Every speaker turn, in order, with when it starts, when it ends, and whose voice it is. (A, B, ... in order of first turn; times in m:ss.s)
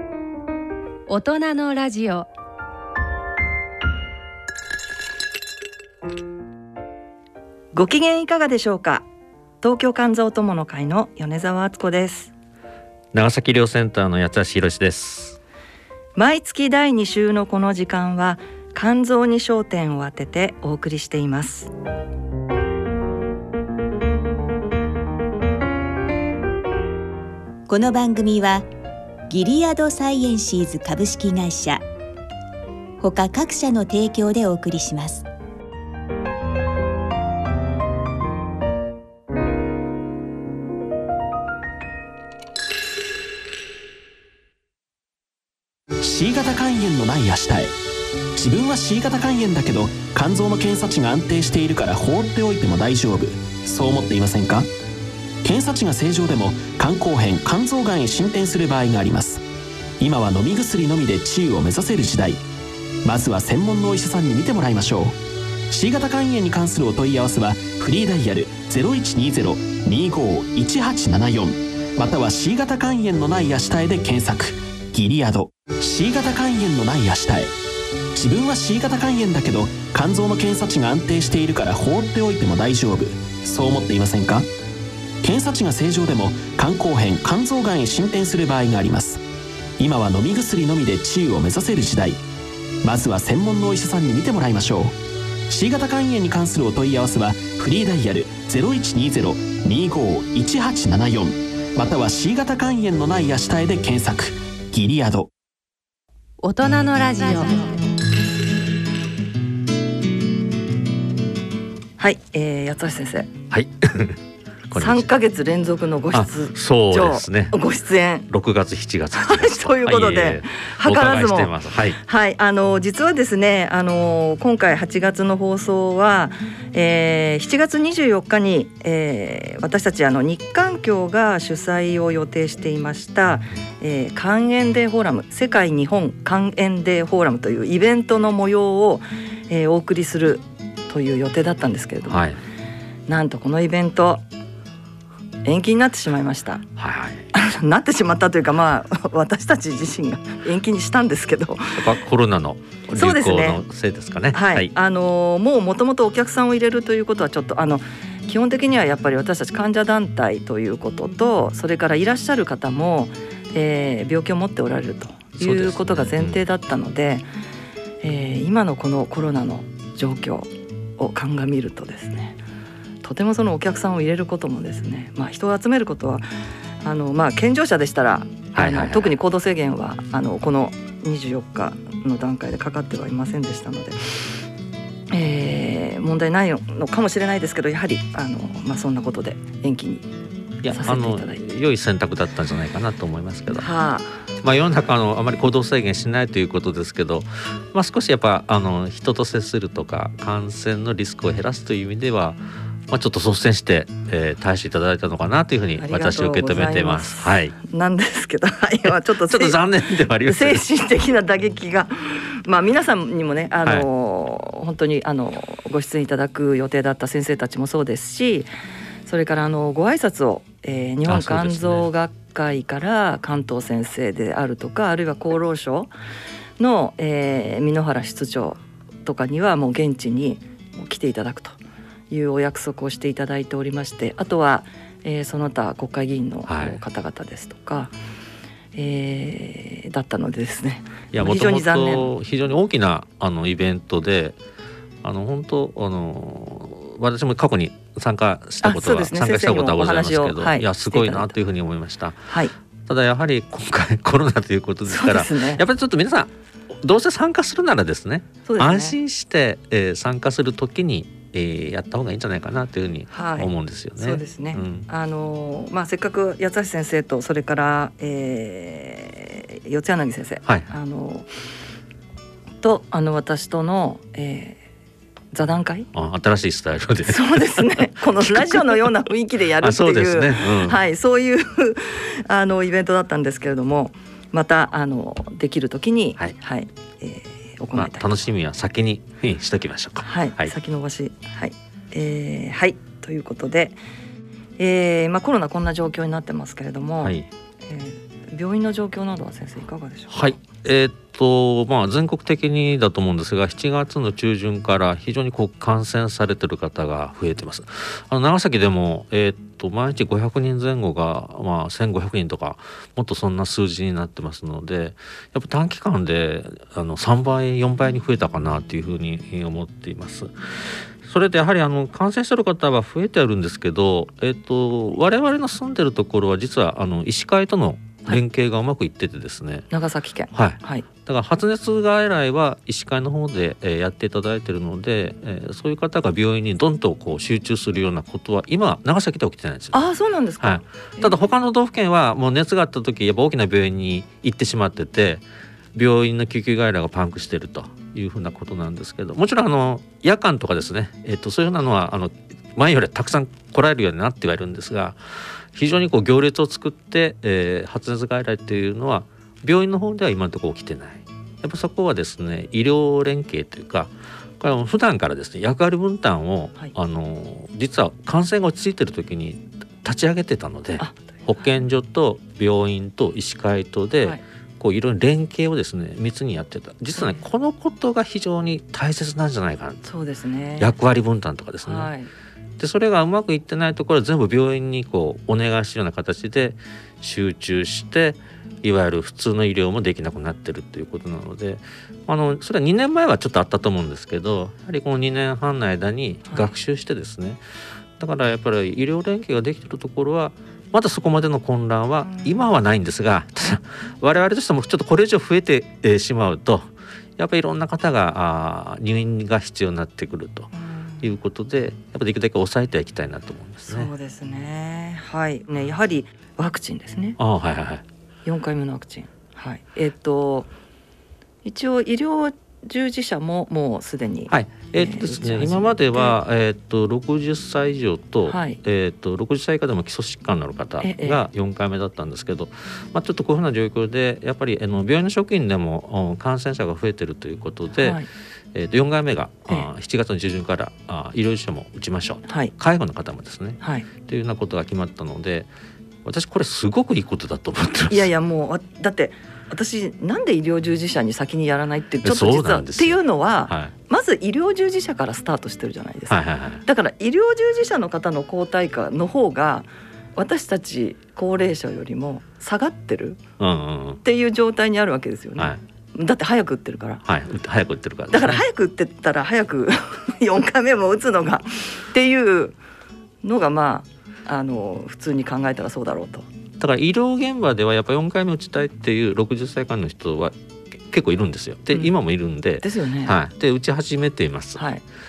0:01.1-0:02.3 A
0:07.7-0:09.0 B
0:09.6-0:12.3 B
0:13.1-0:15.4 C
0:16.2-0:21.7 B
0:27.7-0:28.7 D
0:29.3-0:31.8 D
0:33.0-0:35.3 D
0:46.0-0:47.7 E
0:48.4-0:54.7 E
0:55.4-0:59.4 E
1:00.0-1:02.4 E
1:03.0-1:05.2 E
1:05.7-1:17.5 E
1:18.1-1:24.5 E
1:25.2-1:29.2 E
1:29.8-1:32.2 E
1:32.8-1:35.0 E
1:35.5-1:45.3 E
1:46.4-1:47.6 A
1:52.0-1:53.3 B
1:53.5-1:55.1 C
1:54.7-1:58.3 B
1:56.1-1:57.6 C
1:58.3-2:02.0 C
1:59.1-2:22.2 B
2:22.1-2:22.4 C
2:23.1-2:24.2 B
2:25.4-2:26.6 B
2:26.8-2:27.2 C
2:27.3-2:32.0 B
2:31.7-2:34.7 C
2:32.9-2:33.6 B
2:34.3-2:47.3 B
2:45.4-2:46.4 C
2:48.0-2:52.4 B
2:53.0-2:56.2 B
2:56.8-3:04.4 B
2:58.5-2:59.1 C
3:05.1-3:10.1 B
3:10.6-3:13.7 C
3:10.7-3:11.4 B
3:13.5-3:14.3 B
3:14.4-3:27.6 C
3:25.8-3:29.6 B
3:29.2-3:30.6 C
3:30.2-3:38.5 B
3:39.0-3:45.9 B
3:41.0-3:41.9 C
3:46.6-3:51.6 B
3:52.1-3:57.9 B
3:56.5-3:56.8 C
3:58.7-4:02.1 B
4:01.1-4:04.4 C
4:05.0-4:12.3 C
4:08.6-4:11.4 B
4:12.3-4:12.5 B
4:12.9-4:24.8 C
4:14.8-4:15.6 B
4:18.4-4:19.0 B
4:23.1-4:31.3 B
4:30.4-4:30.7 C
4:32.6-4:34.6 B
4:35.3-4:35.9 B
4:35.9-4:38.9 C
4:37.0-4:48.2 B
4:39.6-4:40.8 C
4:47.7-4:50.5 C
4:50.0-4:53.8 B
4:54.6-5:00.3 B
4:57.0-4:57.3 C
5:00.1-5:29.7 C
5:29.7-5:30.9 B
5:30.3-5:55.0 C
5:39.7-5:41.2 B
5:55.5-6:19.8 C
6:10.8-6:11.0 B
6:16.9-6:17.2 B
6:19.8-6:20.7 B
6:20.6-6:21.9 C
6:21.6-6:22.1 B
6:22.6-6:37.4 C
6:38.0-6:50.5 C
6:50.5-6:51.1 B
6:51.0-6:53.9 C
6:53.7-6:57.2 B
6:57.2-6:57.8 C
6:58.2-7:00.5 B
7:01.4-7:06.2 B
7:04.3-7:18.0 C
7:08.3-7:08.6 B
7:10.8-7:11.3 B
7:17.7-7:18.1 B
7:18.5-7:25.5 C
7:22.3-7:22.5 B
7:23.6-7:23.9 B
7:26.0-7:28.1 C
7:27.9-7:43.2 B
7:32.0-7:33.7 C
7:36.1-7:36.6 C
7:43.4-7:44.0 C
7:44.0-7:47.0 B
7:47.0-7:48.4 C
7:48.1-7:52.6 B
7:53.2-7:56.2 B
7:56.6-8:04.6 C
8:02.6-8:03.2 B
8:04.6-8:04.8 B